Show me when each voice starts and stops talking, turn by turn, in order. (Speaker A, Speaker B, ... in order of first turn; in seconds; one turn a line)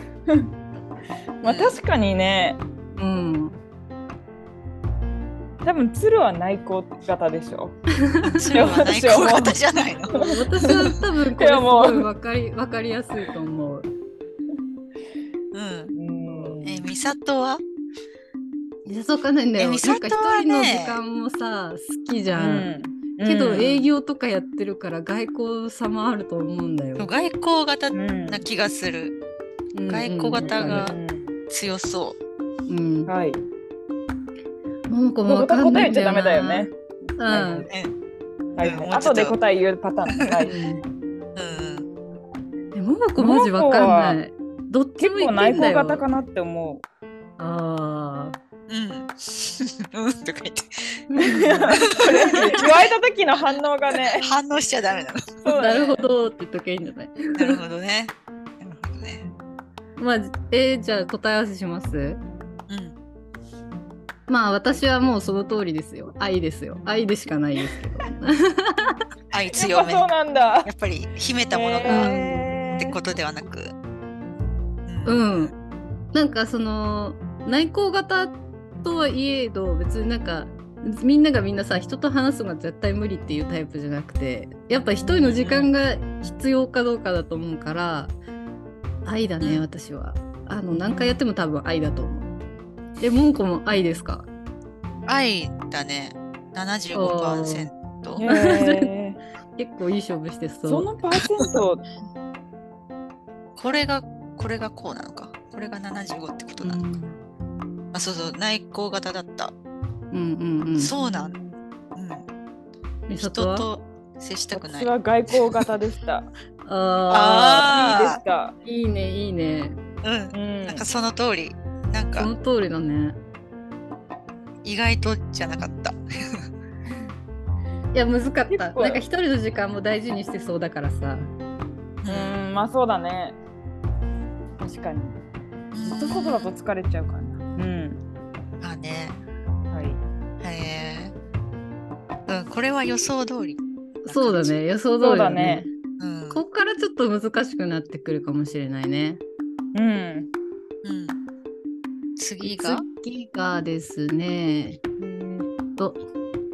Speaker A: 1.4-2.6
Speaker B: 1.4-1.8
Speaker C: 3.0-3.6
Speaker A: 5.6-7.8
Speaker C: 8.0-8.5
Speaker B: 8.2-10.4
Speaker A: 8.5-10.7
Speaker C: 10.2-13.9
Speaker A: 11.4-12.1
Speaker B: 15.5-15.9
Speaker A: 15.9-16.9
Speaker B: 16.6-17.6
Speaker C: 18.9-27.1
Speaker B: 19.6-21.0
Speaker A: 22.3-23.9
Speaker B: 27.0-29.1
Speaker A: 27.9-28.4
Speaker C: 29.7-30.9
Speaker B: 29.9-31.0
Speaker A: 30.3-31.4
Speaker B: 31.5-32.2
Speaker C: 32.7-33.1
Speaker A: 33.1-33.4
Speaker C: 34.9-37.7
Speaker A: 35.3-36.7
Speaker A: 37.3-37.7
Speaker B: 37.7-37.9
Speaker A: 38.5-40.5
Speaker B: 38.6-39.3
Speaker B: 40.1-40.4
Speaker C: 40.5-40.8
Speaker B: 41.4-41.9
Speaker C: 42.7-46.0
Speaker A: 43.2-44.2
Speaker A: 45.0-46.8
Speaker C: 47.4-48.4
Speaker B: 48.7-52.9
Speaker C: 51.1-51.8
Speaker A: 51.2-54.3
Speaker C: 52.3-52.6
Speaker B: 54.2-55.4
Speaker A: 55.4-56.1
Speaker C: 55.5-57.6
Speaker B: 57.3-59.3
Speaker C: 60.0-62.2
Speaker B: 62.7-62.9
Speaker C: 64.3-69.0
Speaker B: 69.3-70.1
Speaker A: 69.5-70.7
Speaker B: 70.6-73.7
Speaker A: 71.5-73.0
Speaker C: 71.9-72.5
Speaker B: 74.9-75.5
Speaker C: 75.0-75.5
Speaker C: 76.1-88.1
Speaker B: 85.2-85.7
Speaker C: 89.0-92.3
Speaker C: 93.0-94.3
Speaker B: 95.0-98.2
Speaker C: 96.9-98.9
Speaker A: 98.2-99.2
Speaker C: 99.5-100.9
Speaker A: 100.6-101.8
Speaker B: 103.5-106.9
Speaker C: 106.6-107.2
Speaker B: 107.9-109.5
Speaker C: 110.1-110.9
Speaker B: 110.8-111.4
Speaker A: 111.0-111.5
Speaker B: 111.9-112.2
Speaker C: 113.1-113.7
Speaker B: 113.1-115.4
Speaker A: 114.5-116.3
Speaker C: 116.6-117.8
Speaker B: 117.1-118.2
Speaker A: 117.7-118.5
Speaker C: 118.6-119.8
Speaker B: 120.0-122.3
Speaker A: 120.3-120.8
Speaker C: 122.2-123.2
Speaker B: 124.6-126.5
Speaker C: 127.9-131.3
Speaker A: 128.5-129.0
Speaker B: 132.0-132.4
Speaker A: 132.1-133.4
Speaker A: 134.6-135.2
Speaker B: 135.7-136.5
Speaker A: 135.8-138.0
Speaker B: 138.6-139.2
Speaker A: 139.7-140.0
Speaker B: 140.4-141.1
Speaker B: 142.3-144.6
Speaker C: 144.1-145.7
Speaker A: 145.0-145.7
Speaker B: 146.0-146.4
Speaker C: 146.3-149.2
Speaker A: 149.7-150.3
Speaker B: 150.8-151.2
Speaker B: 152.2-152.8
Speaker C: 152.4-154.8
Speaker A: 155.0-155.5